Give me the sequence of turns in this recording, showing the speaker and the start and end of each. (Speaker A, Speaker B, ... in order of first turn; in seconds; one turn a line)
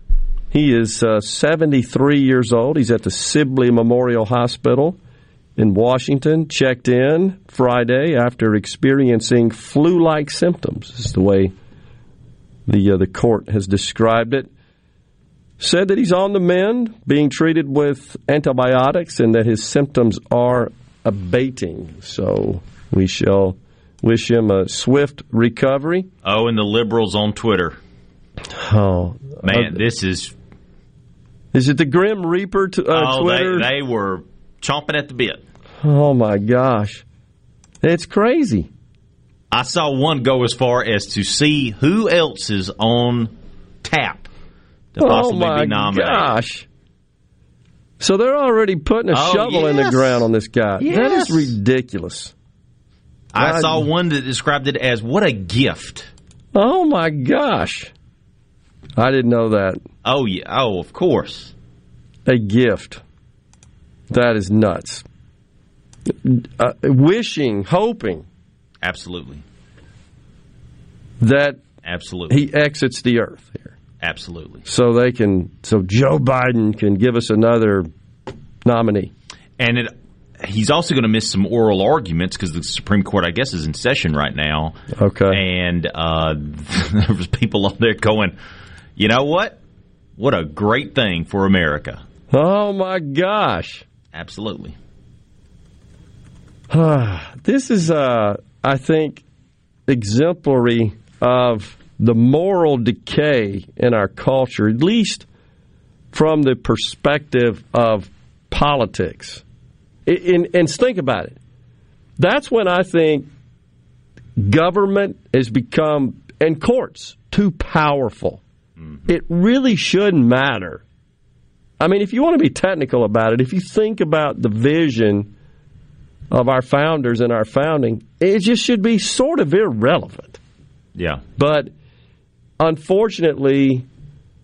Speaker A: 0.5-5.0
Speaker A: 5.6-11.5
Speaker A: 12.7-14.5
Speaker A: 15.6-26.1
Speaker B: 26.2-27.8
Speaker A: 28.5-29.8
Speaker B: 29.4-30.3
Speaker A: 31.5-33.7
Speaker B: 32.9-35.4
Speaker A: 35.8-37.0
Speaker A: 37.8-38.7
Speaker B: 39.5-43.3
Speaker B: 43.8-44.3
Speaker B: 44.9-46.3
Speaker A: 45.0-46.7
Speaker A: 48.0-52.3
Speaker B: 49.1-50.2
Speaker B: 50.8-51.5
Speaker B: 53.3-56.1
Speaker A: 53.4-53.8
Speaker A: 56.5-57.9
Speaker A: 59.0-59.8
Speaker B: 60.0-61.5
Speaker A: 62.2-63.0
Speaker A: 64.1-65.0
Speaker A: 66.2-68.2
Speaker B: 68.8-69.4
Speaker A: 71.2-71.6
Speaker B: 71.8-72.4
Speaker A: 72.3-73.7
Speaker B: 74.0-74.6
Speaker A: 74.6-77.9
Speaker A: 78.6-79.1
Speaker B: 79.6-84.8
Speaker A: 84.9-85.4
Speaker B: 85.3-88.3
Speaker B: 89.0-89.6
Speaker B: 90.2-92.0
Speaker A: 92.3-93.8
Speaker B: 94.1-94.8
Speaker A: 96.7-99.2
Speaker A: 99.9-105.2
Speaker A: 106.1-109.4
Speaker A: 110.0-111.4
Speaker A: 112.2-113.3
Speaker A: 114.4-118.4
Speaker B: 118.8-119.1
Speaker A: 119.1-120.8
Speaker A: 121.8-125.3
Speaker A: 126.3-130.4
Speaker B: 130.9-131.2
Speaker A: 131.4-131.7
Speaker A: 132.6-133.8